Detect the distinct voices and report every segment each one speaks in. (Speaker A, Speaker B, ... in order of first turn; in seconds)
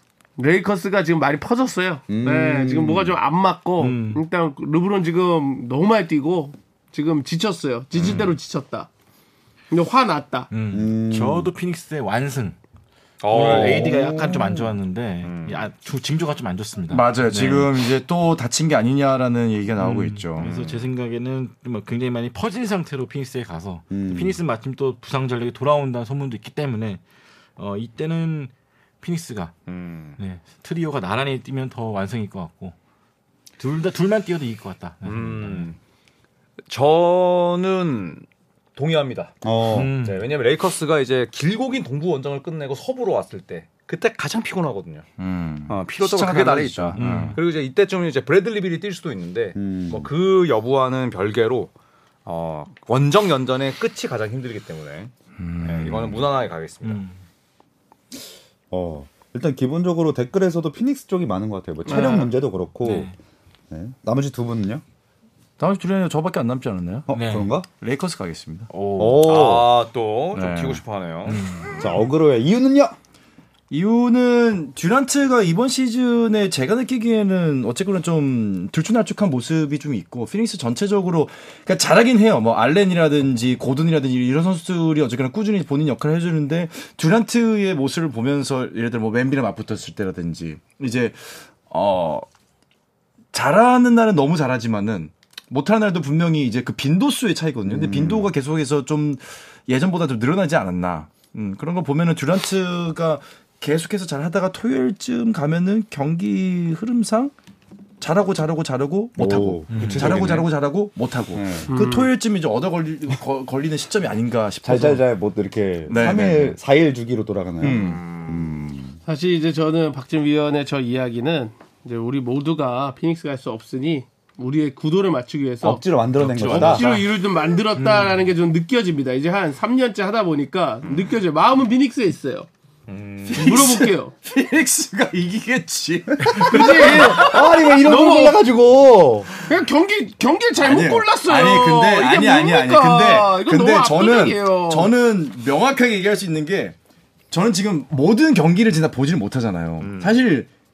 Speaker A: 0.4-8.9, 9.7-10.5, 61.9-62.3, 111.7-112.1, 119.0-125.8, 126.5-132.5, 133.3-134.1, 136.5-138.4, 139.4-144.9
Speaker B: 2.1-3.2, 10.7-11.5, 13.3-14.6, 23.9-24.4, 39.4-39.9, 49.5-50.1, 58.7-63.1, 63.7-64.8, 67.1-67.7, 69.0-69.8, 71.8-73.0, 97.7-98.3, 109.2-110.5, 111.3-111.7, 114.6-119.0, 125.6-126.8, 136.3-139.3
Speaker C: 3.8-4.2, 10.5-12.6, 13.3-17.7, 19.8-27.0, 27.6-29.5, 30.2-32.7, 33.6-35.7, 39.7-40.3, 46.9-47.4, 56.8-57.2, 62.8-63.1, 67.1-67.5, 68.7-69.3, 71.3-71.9, 109.7-110.4, 126.2-127.0, 127.8-128.2
Speaker D: 13.2-14.3, 15.2-15.6, 20.4-20.9, 29.7-30.2, 35.0-35.8, 36.7-45.0, 45.7-51.7, 52.2-57.0, 69.2-71.8, 117.7-118.6, 126.4-126.7, 132.9-133.6, 149.8-150.2
Speaker E: 13.4-13.7, 16.9-20.5, 45.2-47.4, 55.4-56.2, 65.6-67.1, 67.8-68.7, 70.3-70.8, 73.7-92.2, 93.3-107.3, 108.0-115.0, 115.9-116.5, 117.6-118.0, 133.3-137.4, 140.6-146.8, 147.3-150.5